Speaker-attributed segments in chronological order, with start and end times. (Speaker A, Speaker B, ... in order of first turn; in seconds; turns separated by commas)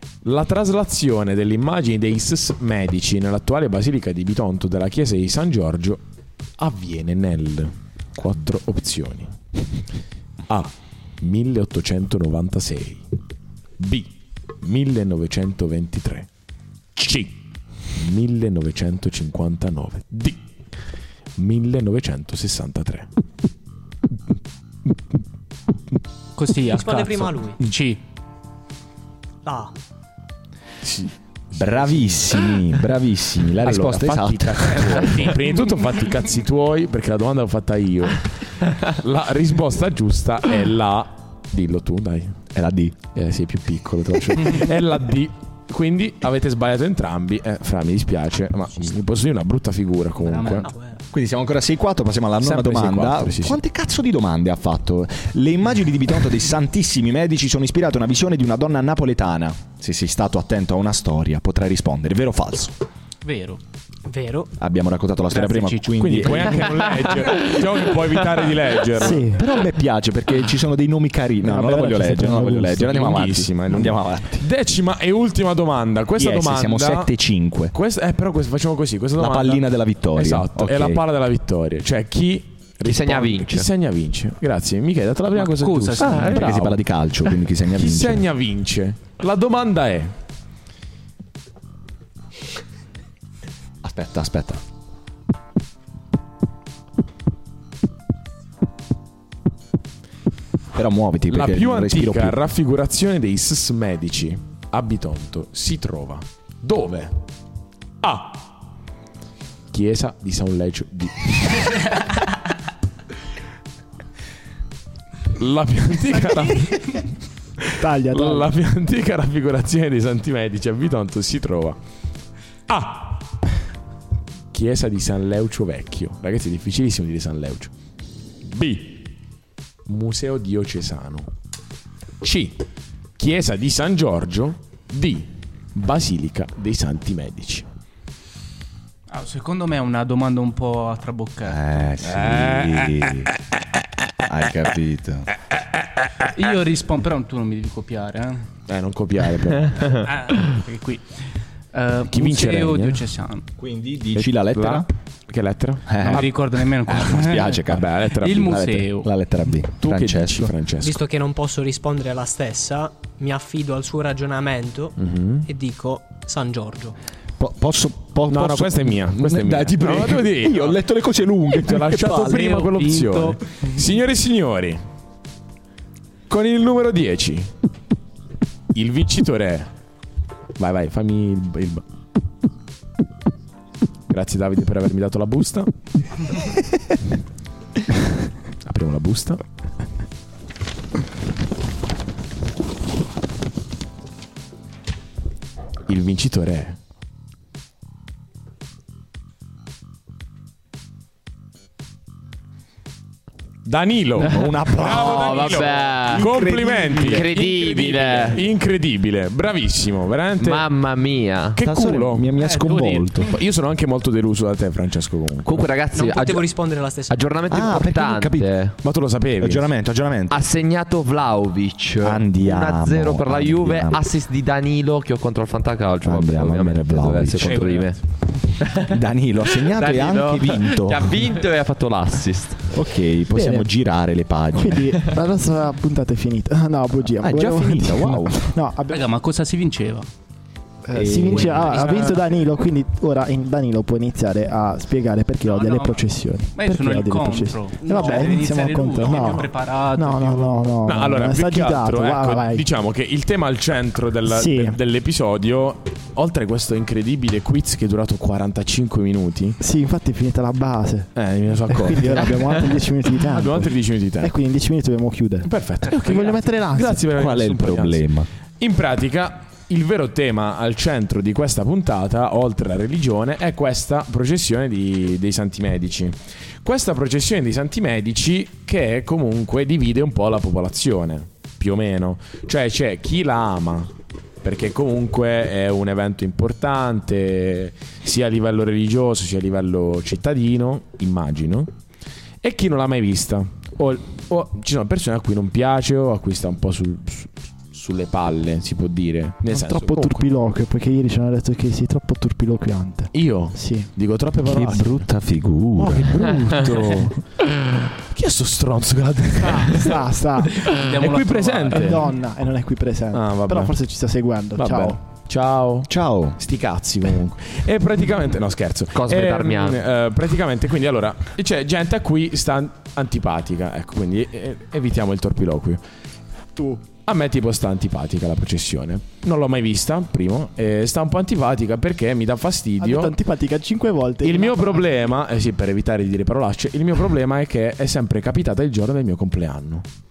Speaker A: 0.2-6.0, Speaker A: 6.6-9.3, Speaker A: 10.5-13.0, Speaker A: 13.8-16.3, Speaker A: 17.0-17.4, Speaker A: 17.9-20.4, Speaker A: 21.4-23.1, Speaker B: 26.4-28.0, Speaker C: 26.7-27.6, Speaker C: 29.4-29.7, Speaker A: 30.8-32.3, Speaker D: 31.5-35.3, Speaker A: 33.6-42.4, Speaker B: 34.9-35.4, Speaker D: 42.5-43.0, Speaker A: 43.1-50.7, Speaker B: 50.2-50.7, Speaker C: 50.6-51.0, Speaker D: 51.1-62.8, Speaker A: 52.4-53.6, Speaker B: 63.2-63.6, Speaker C: 64.0-64.5, Speaker D: 64.6-66.8, Speaker B: 65.3-66.7, Speaker A: 66.0-69.3, Speaker E: 69.0-69.4, Speaker D: 69.0-74.5, Speaker E: 71.4-72.8, Speaker A: 72.8-77.1, Speaker D: 76.2-77.7, Speaker A: 77.7-86.8, Speaker D: 79.2-81.0, Speaker F: 82.8-83.7, Speaker B: 85.3-86.5, Speaker D: 86.0-88.2, Speaker A: 87.7-90.1, Speaker D: 93.8-94.6, Speaker D: 100.7-102.4, Speaker A: 101.3-107.2, Speaker A: 108.0-108.5, Speaker A: 109.7-111.8, Speaker A: 115.3-117.0, Speaker A: 117.6-121.8, Speaker E: 117.8-118.5, Speaker A: 122.7-123.2, Speaker A: 124.5-127.7, Speaker A: 128.4-129.1, Speaker A: 129.8-131.3, Speaker A: 132.2-132.6, Speaker A: 133.2-137.7, Speaker B: 139.1-141.6, Speaker D: 141.4-143.3, Speaker D: 144.2-145.3, Speaker B: 146.2-148.5, Speaker A: 148.7-150.0, Speaker B: 149.9-153.4, Speaker A: 152.1-153.1, Speaker D: 153.6-154.9, Speaker A: 154.1-156.3, Speaker D: 155.9-156.3, Speaker B: 156.0-157.6, Speaker D: 156.8-157.9, Speaker A: 157.7-158.8, Speaker B: 158.1-159.1, Speaker D: 158.9-160.5, Speaker A: 159.8-161.0, Speaker C: 160.8-166.9, Speaker A: 165.0-165.5, Speaker D: 167.4-172.5, Speaker A: 168.3-170.8, Speaker A: 171.6-174.8, Speaker B: 172.2-173.4, Speaker A: 176.3-177.5, Speaker A: 178.7-179.7, Speaker A: 180.6-181.8, Speaker A: 184.1-185.7, Speaker A: 188.6-189.4, Speaker A: 195.9-196.8, Speaker A: 203.6-210.7, Speaker D: 204.2-207.3, Speaker F: 204.8-206.3, Speaker F: 207.0-208.4, Speaker F: 210.4-211.6, Speaker A: 211.6-212.3, Speaker D: 211.6-213.3, Speaker B: 212.4-213.3, Speaker A: 213.2-215.7, Speaker F: 215.4-216.5, Speaker C: 215.9-217.2, Speaker F: 217.1-218.8, Speaker D: 217.5-218.5, Speaker A: 218.8-219.7, Speaker D: 219.4-220.5, Speaker F: 220.3-228.0, Speaker D: 222.0-224.0, Speaker D: 226.0-227.7, Speaker F: 228.6-229.0, Speaker D: 228.9-231.3, Speaker F: 229.5-232.7, Speaker D: 232.7-234.9, Speaker E: 233.3-233.7, Speaker E: 234.5-239.1, Speaker D: 237.2-238.5, Speaker B: 238.9-240.1, Speaker E: 240.8-252.7, Speaker D: 240.9-242.1, Speaker B: 241.4-242.3, Speaker B: 245.4-246.0, Speaker B: 246.5-250.8, Speaker C: 247.9-248.3, Speaker A: 250.8-259.6, Speaker E: 254.3-254.8, Speaker E: 259.6-261.1, Speaker A: 261.1-264.3, Speaker E: 261.7-267.0, Speaker A: 265.4-268.0, Speaker B: 265.9-266.5, Speaker D: 267.1-268.3, Speaker A: 268.6-283.9, Speaker A: 284.4-291.7, Speaker A: 292.4-300.3, Speaker E: 299.5-303.9, Speaker A: 303.1-305.0, Speaker D: 304.4-306.3, Speaker A: 305.8-307.2, Speaker A: 308.1-310.0, Speaker E: 309.4-310.7, Speaker A: 310.6-312.0, Speaker B: 310.7-312.1, Speaker E: 311.7-315.0, Speaker A: 313.1-313.8, Speaker A: 314.6-325.8, Speaker D: 315.9-316.4, Speaker F: 318.9-319.8, Speaker E: 326.6-326.8, Speaker A: 327.0-333.1, Speaker E: 332.8-335.1, Speaker A: 334.2-339.8